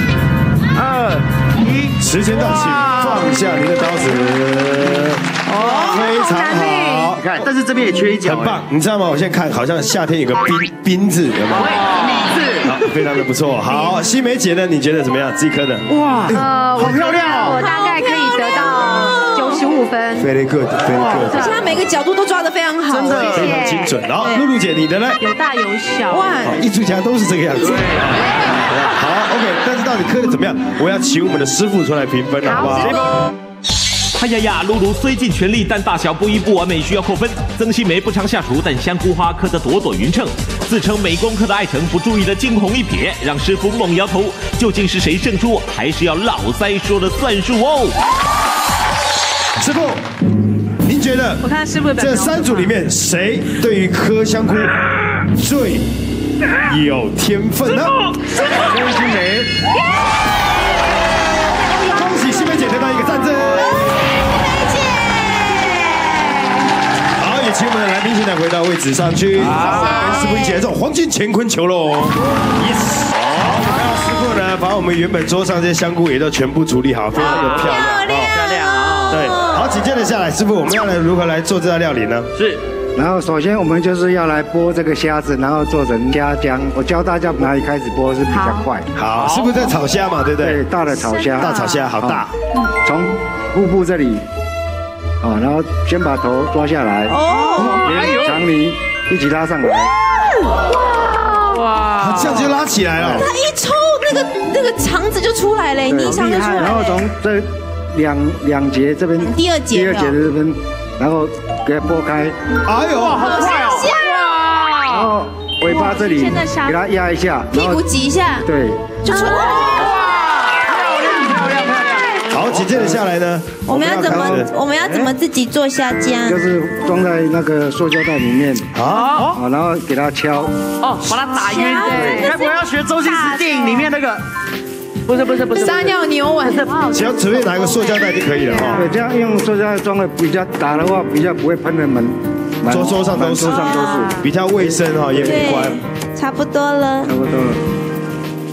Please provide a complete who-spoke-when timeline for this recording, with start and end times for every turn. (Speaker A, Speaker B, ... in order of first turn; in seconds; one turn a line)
Speaker A: 0.8-3.5
Speaker B: 2.0-5.2
Speaker C: 5.5-6.2
Speaker A: 5.5-6.0
Speaker D: 5.6-7.1
Speaker B: 5.9-7.5
Speaker A: 7.2-8.7
Speaker B: 8.2-11.9
Speaker A: 11.5-12.9
Speaker B: 12.6-16.9
Speaker A: 15.9-17.6
Speaker D: 16.3-20.3
Speaker C: 17.5-19.7
Speaker B: 20.2-21.6
Speaker A: 20.9-21.3
Speaker C: 21.2-24.4
Speaker D: 21.3-21.6
Speaker A: 22.9-23.5
Speaker B: 23.3-25.2
Speaker D: 23.4-24.0
Speaker E: 25.2-26.4
Speaker C: 26.1-26.6
Speaker B: 26.4-33.0
Speaker A: 27.6-28.9
Speaker D: 32.4-33.0
Speaker C: 32.7-33.0
Speaker F: 34.2-48.0
Speaker B: 49.6-50.0
Speaker B: 50.9-55.9
Speaker E: 51.4-52.7
Speaker B: 56.4-58.0
Speaker G: 58.6-59.5
Speaker C: 61.3-62.0
Speaker B: 61.8-63.9
Speaker C: 63.5-66.5
Speaker B: 67.2-78.3
Speaker A: 69.4-70.2
Speaker C: 69.5-70.6
Speaker C: 77.1-79.8
Speaker A: 77.2-79.3
Speaker B: 79.1-82.3
Speaker A: 82.3-82.6
Speaker G: 83.0-88.9
Speaker D: 88.3-88.7
Speaker B: 88.9-90.6
Speaker A: 89.1-89.8
Speaker G: 90.4-92.2
Speaker B: 91.3-92.3
Speaker D: 91.3-91.8
Speaker G: 92.8-94.2
Speaker G: 95.2-99.9
Speaker C: 97.1-97.9
Speaker A: 97.3-98.4
Speaker D: 101.1-101.6
Speaker A: 101.5-102.6
Speaker B: 102.0-103.3
Speaker C: 103.0-107.0
Speaker G: 105.9-112.4
Speaker A: 106.2-106.7
Speaker C: 109.2-110.2
Speaker B: 112.6-113.3
Speaker A: 112.8-115.1
Speaker C: 113.1-114.4
Speaker G: 114.9-117.9
Speaker E: 115.7-116.8
Speaker C: 117.5-118.5
Speaker G: 118.4-118.9
Speaker C: 119.0-120.1
Speaker A: 119.3-122.9
Speaker D: 120.8-122.3
Speaker B: 122.3-124.5
Speaker C: 123.7-126.4
Speaker G: 124.0-124.5
Speaker G: 126.2-128.7
Speaker B: 128.7-129.2
Speaker A: 128.9-129.4
Speaker G: 129.3-130.6
Speaker A: 130.8-134.2
Speaker C: 131.2-133.6
Speaker D: 131.5-132.5
Speaker D: 133.5-133.9
Speaker A: 135.1-136.8
Speaker C: 135.5-136.8
Speaker D: 136.6-138.9
Speaker B: 136.8-138.9
Speaker G: 138.7-145.6
Speaker B: 142.7-145.8
Speaker D: 143.5-144.3
Speaker C: 145.2-147.2
Speaker G: 147.1-147.6